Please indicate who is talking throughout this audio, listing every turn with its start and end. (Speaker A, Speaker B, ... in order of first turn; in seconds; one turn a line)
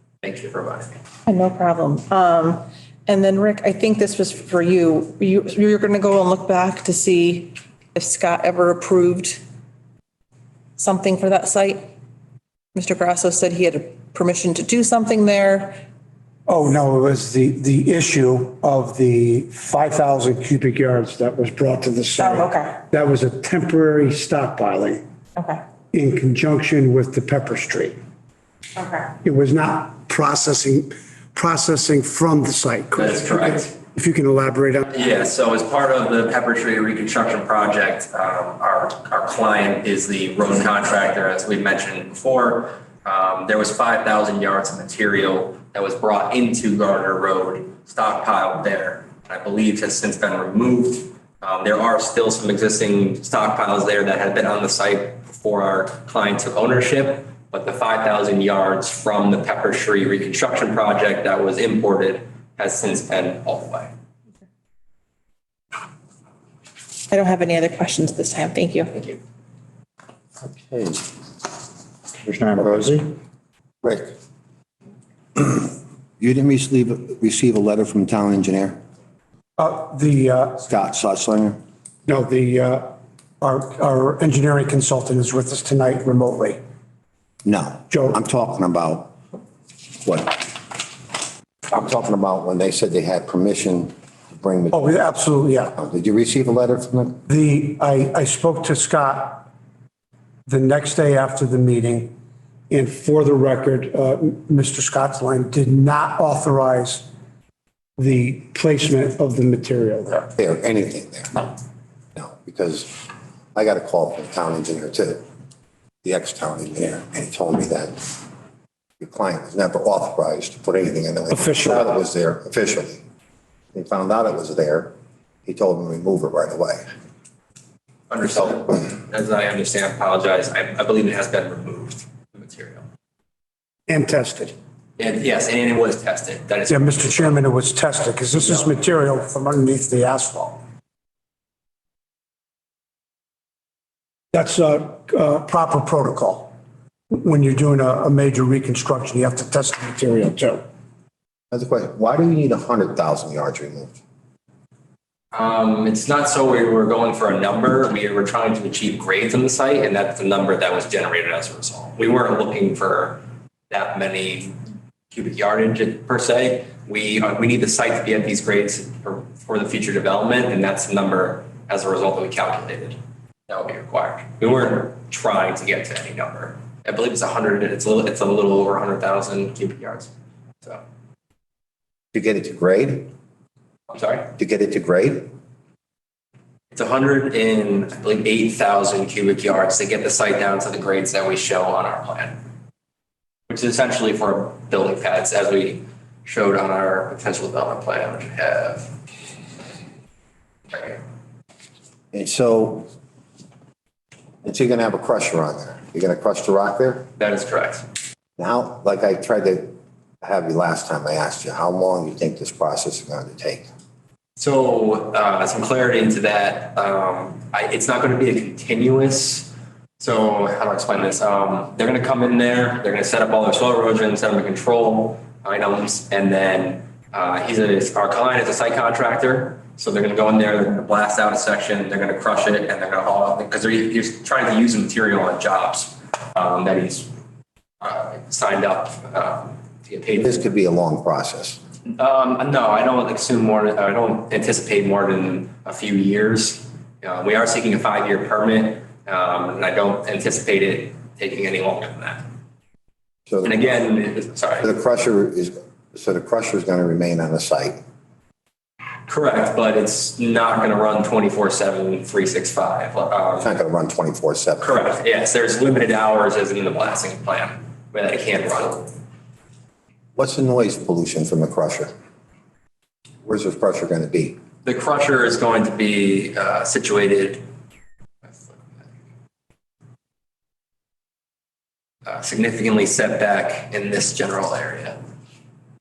Speaker A: 0.2-0.9
Speaker B: 1.3-9.4
Speaker B: 10.8-11.9
Speaker B: 12.8-15.8
Speaker C: 16.4-25.0
Speaker B: 22.2-22.8
Speaker B: 25.4-25.6
Speaker C: 25.9-27.9
Speaker B: 28.8-29.1
Speaker C: 29.2-34.9
Speaker A: 33.0-33.7
Speaker A: 34.9-63.9
Speaker B: 67.1-69.2
Speaker D: 70.4-71.0
Speaker C: 72.2-73.1
Speaker D: 72.6-73.0
Speaker D: 73.8-74.1
Speaker D: 75.3-78.8
Speaker C: 79.6-80.6
Speaker D: 80.6-81.6
Speaker C: 82.1-82.9
Speaker C: 83.4-86.6
Speaker D: 87.4-89.2
Speaker C: 87.9-88.2
Speaker D: 90.0-91.1
Speaker D: 91.7-95.0
Speaker C: 94.7-95.7
Speaker D: 95.6-97.2
Speaker C: 97.3-99.5
Speaker C: 100.5-102.1
Speaker C: 102.7-107.1
Speaker C: 108.0-110.3
Speaker D: 110.4-111.5
Speaker D: 112.1-112.9
Speaker D: 113.5-115.2
Speaker D: 116.0-118.1
Speaker D: 119.0-123.0
Speaker C: 121.3-121.8
Speaker D: 123.7-124.9
Speaker D: 125.5-126.8
Speaker A: 128.1-132.8
Speaker C: 133.9-134.5
Speaker A: 135.0-137.4
Speaker C: 136.7-140.6
Speaker C: 144.3-146.5
Speaker C: 147.1-150.6
Speaker D: 151.5-154.0
Speaker A: 155.3-164.6
Speaker A: 165.1-180.1
Speaker D: 182.1-183.1
Speaker A: 183.9-184.3
Speaker D: 184.4-185.3
Speaker A: 186.7-192.4
Speaker A: 193.5-198.9
Speaker A: 200.7-201.0
Speaker D: 202.1-202.9
Speaker D: 204.4-207.0
Speaker A: 207.2-207.8
Speaker D: 208.4-213.7
Speaker A: 214.4-237.1
Speaker A: 237.8-240.4
Speaker D: 240.2-241.6
Speaker A: 241.8-252.2
Speaker D: 253.3-253.8
Speaker A: 253.4-254.7
Speaker D: 254.6-257.8
Speaker A: 259.1-263.5
Speaker D: 263.4-264.9
Speaker A: 264.6-268.9
Speaker D: 270.1-271.9
Speaker D: 273.2-274.4
Speaker A: 274.6-277.4
Speaker A: 278.3-278.8
Speaker A: 282.1-285.0